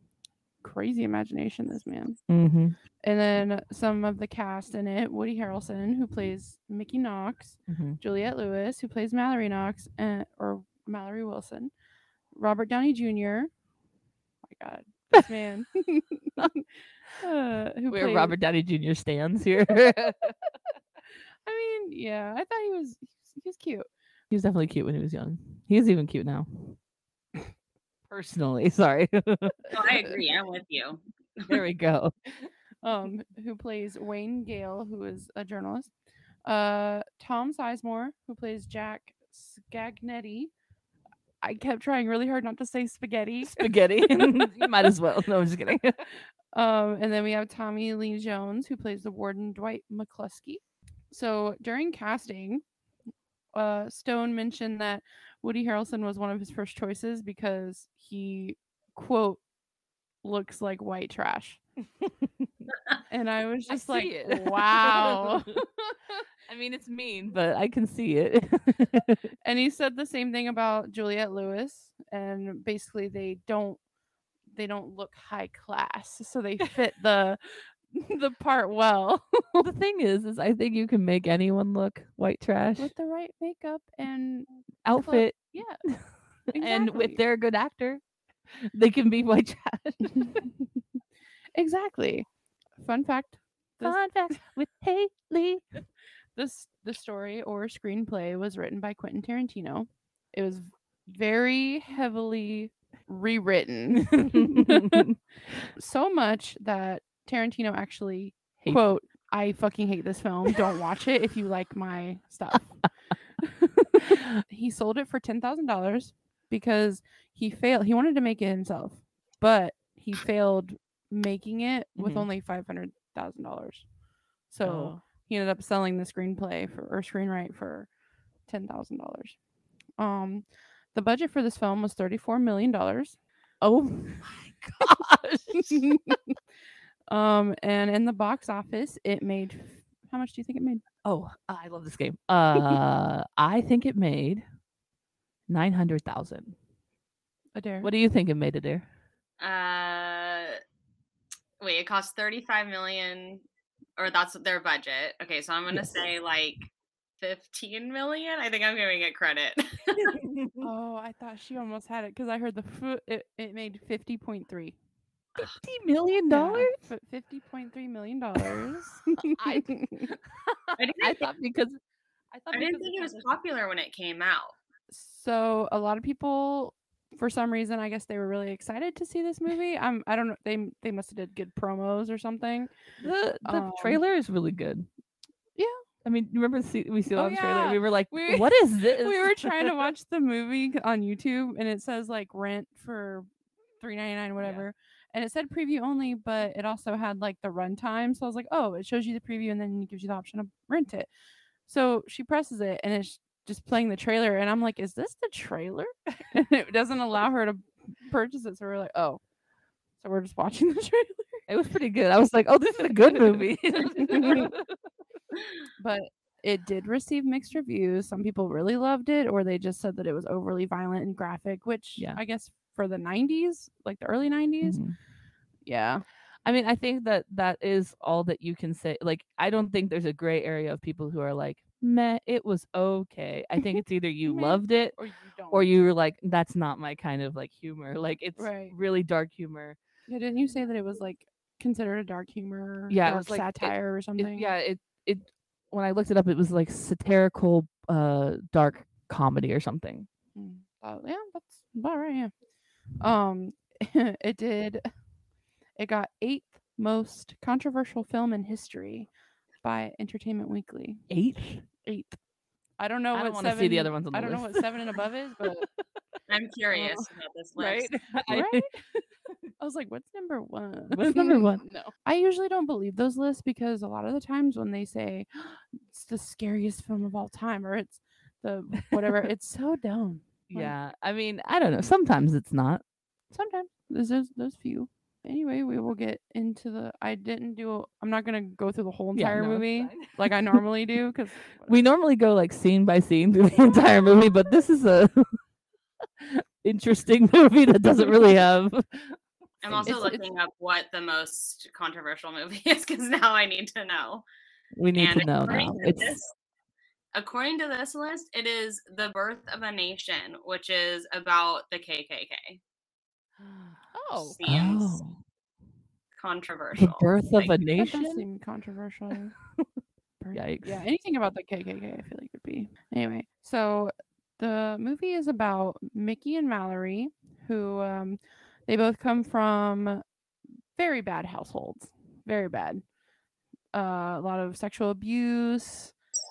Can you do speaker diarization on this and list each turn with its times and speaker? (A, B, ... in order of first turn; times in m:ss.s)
0:00.6-0:02.2 A
0:02.3-0:02.8 B
0:03.0-0:11.7 A
0:07.7-0:08.0 B
0:12.4-0:13.5 A
0:14.4-0:16.6 A
0:17.2-0:18.4 A
0:17.9-0:20.4 B
0:21.4-0:23.9 A
0:24.3-0:26.8 B
0:28.1-0:30.1 B
0:29.7-0:31.6 C
0:31.5-0:32.1 B
0:32.8-0:35.9 A
0:36.4-0:40.5 A
0:41.4-0:44.7 A
0:43.4-0:46.0 B
0:46.5-0:52.6 A
0:53.5-0:59.4 A
1:00.2-1:01.6 A
1:02.0-1:02.4 B
1:03.1-1:05.6 A
1:03.7-1:06.0 B
1:06.5-1:09.3 B
1:09.4-1:13.8 A
1:14.5-1:19.6 A
1:19.6-1:22.9 B
1:22.8-1:25.8 A
1:24.9-1:30.4 B
1:26.5-1:27.2 A
1:30.1-1:30.5 A
1:31.6-1:32.3 A
1:32.8-1:34.4 A
1:33.8-1:35.6 B
1:36.4-1:45.1 A
1:44.0-1:45.2 B
1:45.8-1:52.8 A
1:53.4-2:03.9 A
1:54.0-1:54.3 B
2:02.0-2:02.3 B
2:04.5-2:07.9 A
2:04.6-2:05.0 B
2:08.5-2:09.4 A
2:10.0-2:13.2 A
2:13.6-2:15.9 B
2:15.5-2:16.4 A
2:17.1-2:20.8 A
2:21.0-2:24.4 B
2:25.5-2:26.6 B
2:27.6-2:27.9 A
2:27.8-2:28.9 B
2:29.4-2:30.6 C
2:31.6-2:33.4 C
2:34.0-2:36.7 C
2:35.7-2:36.0 B
2:37.2-2:40.2 C
2:40.0-2:40.7 B
2:40.6-2:44.8 A
2:45.4-2:46.8 B
2:46.3-2:50.1 A
2:49.3-2:51.8 B
2:50.8-2:51.3 C
2:52.3-2:53.1 B
2:52.5-2:54.6 C
2:54.9-3:02.8 A
3:03.0-3:04.9 B
3:03.4-3:04.0 A
3:05.6-3:05.8 A
3:06.0-3:09.9 B
3:07.2-3:13.3 A
3:13.8-3:21.1 A
3:14.4-3:14.7 B
3:21.7-3:29.2 A
3:30.0-3:31.4 A
3:31.5-3:34.7 B
3:33.9-3:34.5 A
3:35.8-3:44.8 A
3:44.6-3:45.0 B
3:45.7-3:46.0 A
3:46.4-3:55.0 B
3:53.6-3:55.7 A
3:55.5-3:59.8 B
3:58.4-3:58.8 A
4:00.1-4:04.5 A
4:02.9-4:10.1 B
4:10.4-4:12.3 A
4:13.0-4:14.9 A
4:15.8-4:19.1 A
4:19.6-4:21.0 A
4:21.1-4:21.6 B
4:21.8-4:22.2 A
4:22.8-4:25.7 A
4:23.1-4:25.8 B
4:26.3-4:27.9 C
4:26.7-4:27.1 A
4:27.6-4:29.4 B
4:28.3-4:28.7 A
4:29.6-4:40.7 A
4:30.9-4:31.6 B
4:39.0-4:39.2 B
4:40.5-4:42.8 B
4:43.3-4:51.8 A
4:49.2-4:50.6 B
4:51.6-4:55.3 B
4:56.2-5:00.1 B
4:59.6-5:04.3 C
4:59.8-5:00.2 A
5:04.8-5:06.2 B
5:05.0-5:06.3 C
5:07.2-5:12.6 C
5:13.4-5:15.2 B
5:13.9-5:14.4 A
5:14.1-5:15.1 C
5:16.2-5:17.6 C
5:16.8-5:18.2 B
5:17.8-5:19.4 A
5:19.1-5:19.7 B
5:20.2-5:30.0 A
5:20.3-5:20.8 B
5:30.8-5:32.8 A
5:33.7-5:35.9 A